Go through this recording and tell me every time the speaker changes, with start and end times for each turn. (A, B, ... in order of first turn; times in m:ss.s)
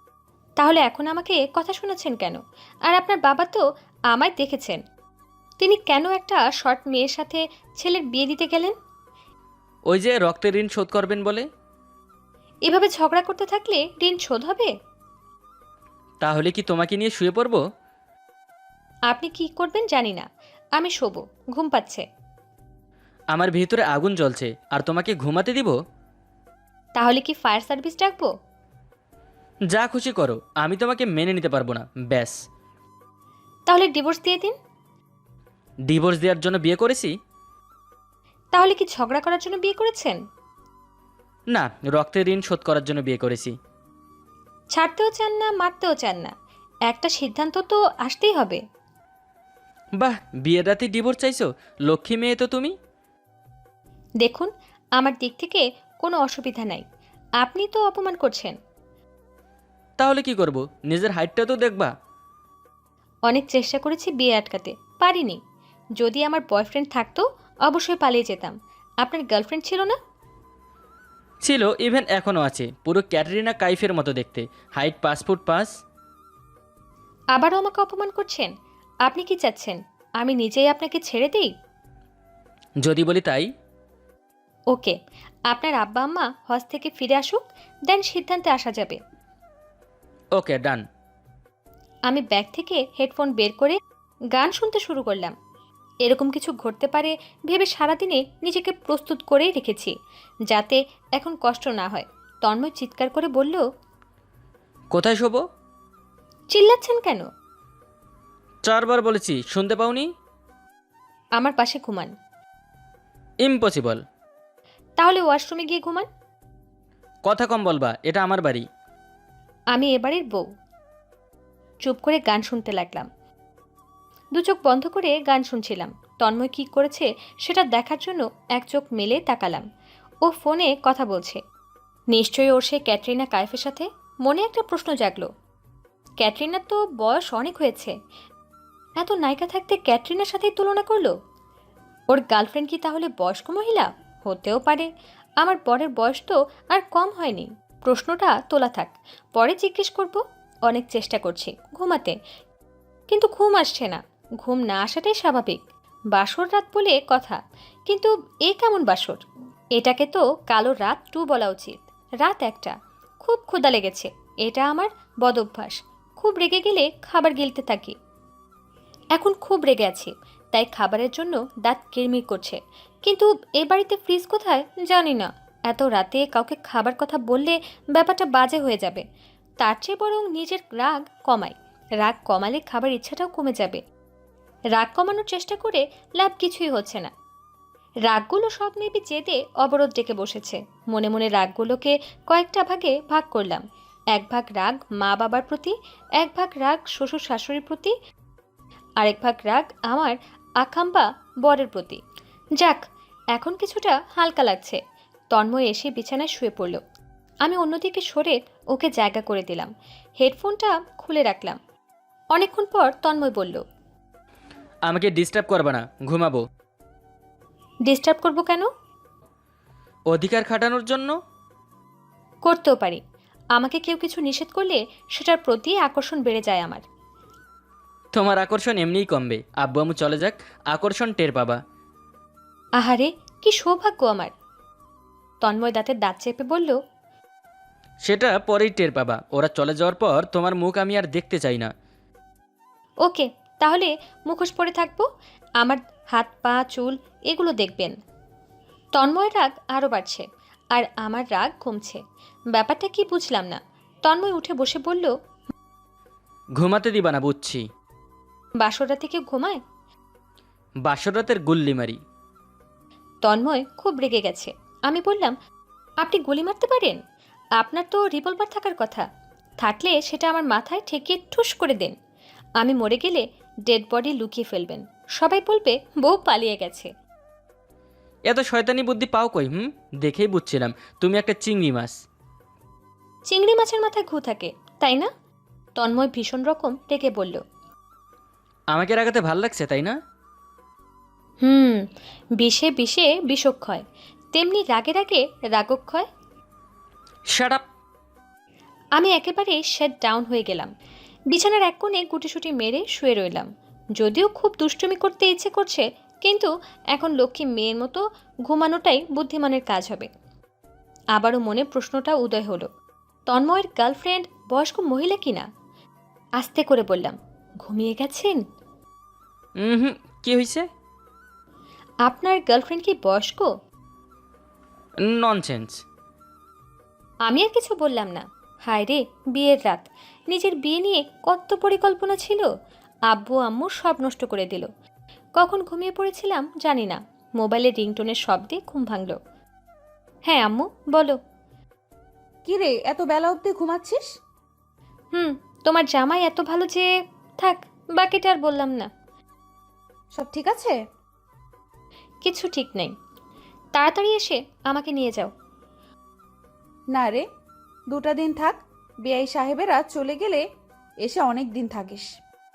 0:00.6-0:04.8 A
0:05.6-0:08.8 A
0:09.9-0:11.5 B
0:12.7-0:14.7 A
0:16.2-0:17.6 B
0:19.1-0:22.0 A
0:23.3-0:25.8 B
0:27.0-0:28.3 A
0:29.7-0:32.4 B
0:33.7-0:34.6 A
0:35.9-0:37.1 B
0:38.5-0:40.2 A
0:41.5-0:43.6 B
0:44.7-0:46.3 A
0:46.9-0:48.6 A
0:50.0-0:52.7 B
0:54.2-0:56.8 A
0:57.4-0:58.6 A
1:00.0-1:01.9 B
1:03.3-1:05.4 A
1:06.0-1:10.0 A
1:11.4-1:15.7 B
1:17.4-1:18.5 A
1:19.0-1:21.5 A
1:22.8-1:23.5 B
1:24.7-1:25.0 A
1:25.5-1:29.0 A
1:30.4-1:30.8 B
1:32.1-1:33.8 A
1:34.3-1:35.4 A
1:36.0-1:39.9 A
1:40.5-1:43.6 A
1:44.9-1:45.4 B
1:46.5-1:47.3 A
1:48.7-1:50.1 B
1:51.4-1:52.1 A
1:53.4-1:54.0 B
1:55.0-1:56.1 A
1:57.2-1:58.6 B
1:59.7-2:00.5 A
2:01.8-2:03.1 A
2:04.4-2:09.6 A
2:10.2-2:11.4 A
2:12.1-2:15.3 A
2:16.2-2:18.0 A
2:19.0-2:21.2 A
2:22.1-2:24.9 A
2:25.4-2:32.2 A
2:33.1-2:35.6 A
2:36.1-2:39.2 A
2:39.8-2:48.0 A
2:49.2-2:59.0 A
2:59.6-3:03.8 A
3:04.8-3:07.1 A
3:08.1-3:17.9 A
3:19.0-3:22.0 A
3:22.6-3:22.8 A
3:23.4-3:24.8 A
3:25.3-3:26.8 A
3:27.4-3:31.6 A
3:32.4-3:33.6 A
3:34.9-3:36.4 B
3:37.9-3:38.7 A
3:40.1-3:41.1 B
3:42.4-3:43.0 A
3:43.5-3:46.8 A
3:48.2-3:51.6 B
3:52.8-3:54.3 A
3:55.4-3:56.8 A
3:58.0-4:01.7 B
4:03.0-4:05.1 A
4:05.6-4:08.0 A
4:09.0-4:12.0 A
4:12.5-4:15.1 A
4:16.6-4:17.7 B
4:18.6-4:19.6 A
4:20.8-4:22.0 B
4:23.2-4:25.4 A
4:26.0-4:27.0 A
4:27.6-4:29.1 A
4:29.6-4:32.0 A
4:32.6-4:36.9 A
4:38.3-4:42.0 B
4:43.3-4:45.1 A
4:45.8-4:47.4 A
4:48.7-4:50.0 B
4:51.4-4:51.9 A
4:52.4-4:56.1 A
4:57.3-4:57.6 B
4:59.0-5:00.7 A
5:01.3-5:10.1 A
5:11.2-5:12.7 A
5:13.3-5:15.5 A
5:16.4-5:18.4 A
5:19.6-5:20.7 B
5:22.1-5:23.5 A
5:25.0-5:25.8 B
5:27.3-5:32.5 A
5:33.1-5:34.7 A
5:35.4-5:39.2 A
5:40.3-5:41.2 A
5:42.4-5:44.0 C
5:45.1-5:48.9 A
5:50.1-5:50.8 C
5:52.2-5:52.9 A
5:53.8-5:55.3 A
5:56.9-5:57.2 C
5:57.9-6:00.4 C
6:01.0-6:02.1 C